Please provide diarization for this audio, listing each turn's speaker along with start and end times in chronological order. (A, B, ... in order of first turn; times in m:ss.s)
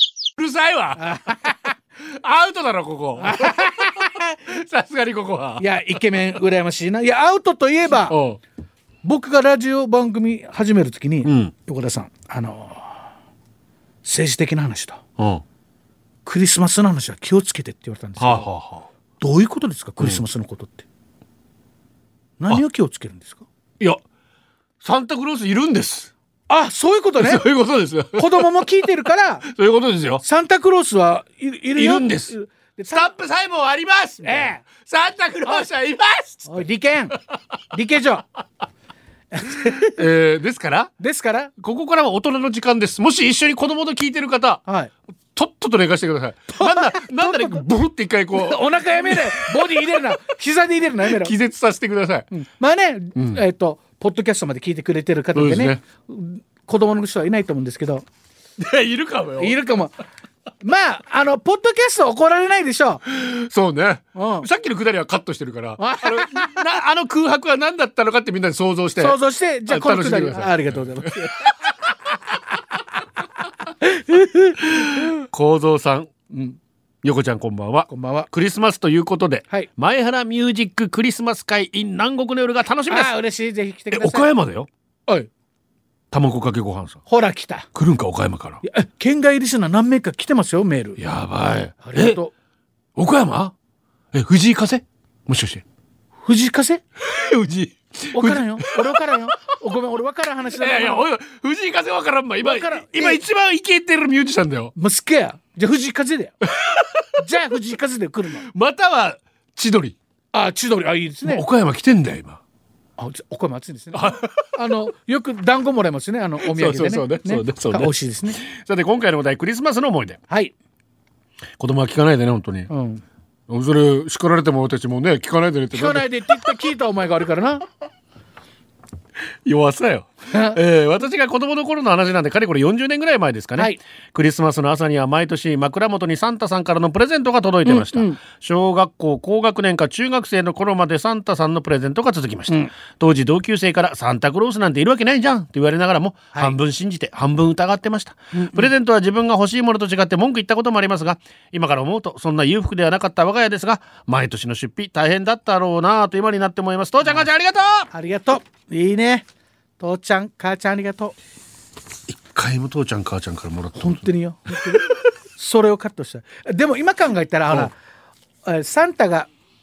0:00.4-0:06.3 A
0:01.0-0:01.6 B
0:03.2-0:04.2 B
0:05.6-0:08.2 B
0:08.1-0:08.4 A
0:09.0-0:13.0 B
0:11.2-0:11.5 A
0:14.0-0:15.0 B
0:15.2-0:15.4 A
0:16.3-0:18.5 B
0:18.2-0:18.9 A
0:19.2-0:20.8 B
0:22.4-0:23.4 B
0:24.8-0:26.1 A
0:26.5-0:27.4 B
0:27.2-0:28.5 A
0:28.2-0:29.5 B
0:29.5-0:30.2 A
0:30.2-0:33.1 B
0:31.8-0:32.3 A
0:32.9-0:36.6 A
0:34.2-0:34.6 B
0:36.5-0:37.2 B
0:37.7-0:38.3 B
0:39.3-0:40.0 B
0:39.8-0:40.9 A
0:41.0-0:41.5 B
0:41.6-0:44.6 A
0:44.7-0:44.9 B
0:45.3-0:50.0 A
0:46.5-0:47.7 B
0:48.3-0:51.4 B
0:51.0-0:52.3 A
0:52.3-0:58.0 B
0:55.4-0:55.8 A
0:58.6-0:59.6 A
0:59.4-0:59.9 B
1:00.6-1:03.0 B
1:03.1-1:11.6 A
1:04.2-1:04.5 B
1:05.8-1:06.7 B
1:09.0-1:11.7 B
1:13.8-1:15.1 B
1:14.6-1:16.1 A
1:16.3-1:16.6 B
1:17.0-1:23.1 A
1:17.9-1:18.3 B
1:22.9-1:24.3 B
1:23.9-1:24.7 A
1:26.1-1:27.0 A
1:27.1-1:27.7 B
1:27.7-1:28.6 A
1:28.6-1:31.0 B
1:31.0-1:32.2 A
1:31.8-1:32.3 B
1:33.0-1:33.5 A
1:34.1-1:35.6 A
1:36.2-1:36.8 B
1:37.0-1:39.0 A
1:38.1-1:41.1 B
1:40.5-1:44.7 A
1:42.4-1:43.2 B
1:44.8-1:46.4 B
1:46.5-1:47.0 A
1:47.2-1:48.4 B
1:48.4-1:50.0 A
1:50.3-1:51.5 B
1:51.2-1:52.4 A
1:53.0-1:58.4 B
1:53.9-1:54.5 A
1:56.4-2:00.2 A
2:01.6-2:02.7 A
2:02.7-2:03.0 B
2:03.5-2:06.5 A
2:05.7-2:07.6 B
2:09.4-2:37.9 A
2:10.3-2:10.6 B
2:17.7-2:18.2 B
2:28.4-2:28.7 B
2:37.0-2:37.3 B
2:37.9-2:39.3 B
2:39.8-2:41.2 B
2:42.1-2:45.0 A
2:43.8-2:47.8 B
2:48.4-2:49.3 B